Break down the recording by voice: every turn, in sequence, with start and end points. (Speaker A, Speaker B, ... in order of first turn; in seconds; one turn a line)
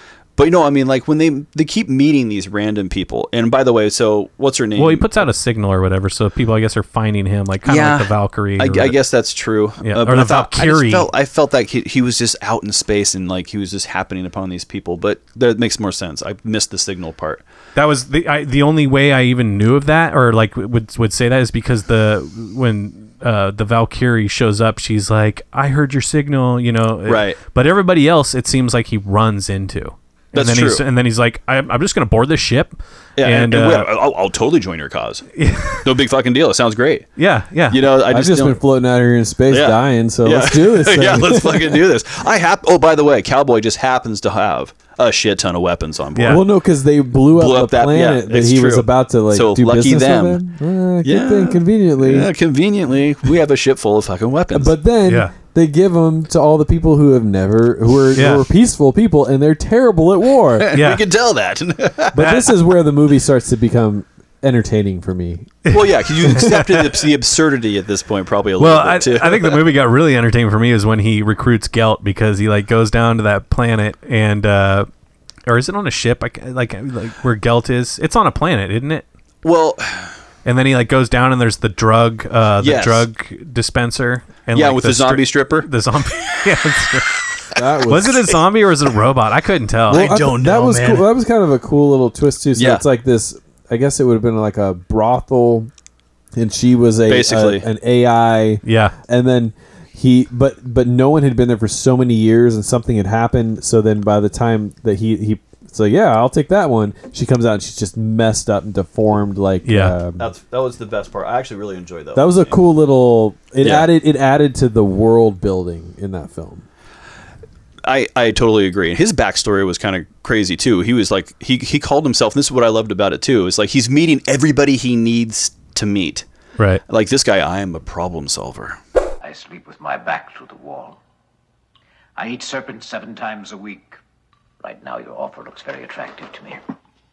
Speaker A: 0.4-5.2
Speaker B: 4.8-8.9
Speaker A: 7.7-17.4
Speaker B: 9.8-11.1
Speaker B: 17.8-33.9
Speaker A: 27.1-27.4
Speaker A: 30.3-30.8
Speaker A: 33.2-35.3
Speaker B: 35.4-35.9
Speaker A: 35.8-37.1
Speaker B: 37.2-37.8
Speaker A: 37.7-38.6
Speaker C: 38.1-41.9
Speaker A: 39.5-46.5
Speaker B: 46.2-46.4
Speaker C: 46.2-52.3
Speaker A: 47.3-50.4
Speaker A: 51.0-54.7
Speaker C: 54.5-60.7
Speaker B: 55.1-55.3
Speaker B: 58.2-58.5
Speaker A: 60.6-62.2
Speaker B: 60.7-61.0
Speaker C: 62.1-65.6
Speaker B: 62.2-62.5
Speaker B: 65.7-66.8
Speaker A: 65.7-69.7
Speaker B: 68.6-74.9
Speaker B: 75.5-79.1
Speaker A: 79.4-80.2
Speaker B: 80.5-90.2
Speaker A: 82.6-83.1
Speaker A: 84.5-85.7
Speaker C: 87.6-88.3
Speaker A: 89.9-91.1
Speaker C: 89.9-95.7
Speaker A: 92.6-92.8
Speaker C: 96.3-110.2
Speaker A: 97.1-97.7
Speaker B: 98.6-99.0
Speaker B: 109.6-110.0
Speaker A: 110.2-112.5
Speaker C: 112.2-116.7
Speaker A: 113.6-113.9
Speaker A: 117.8-126.2
Speaker A: 126.9-128.8
Speaker D: 129.2-131.0
Speaker D: 132.2-134.0
Speaker D: 134.6-136.6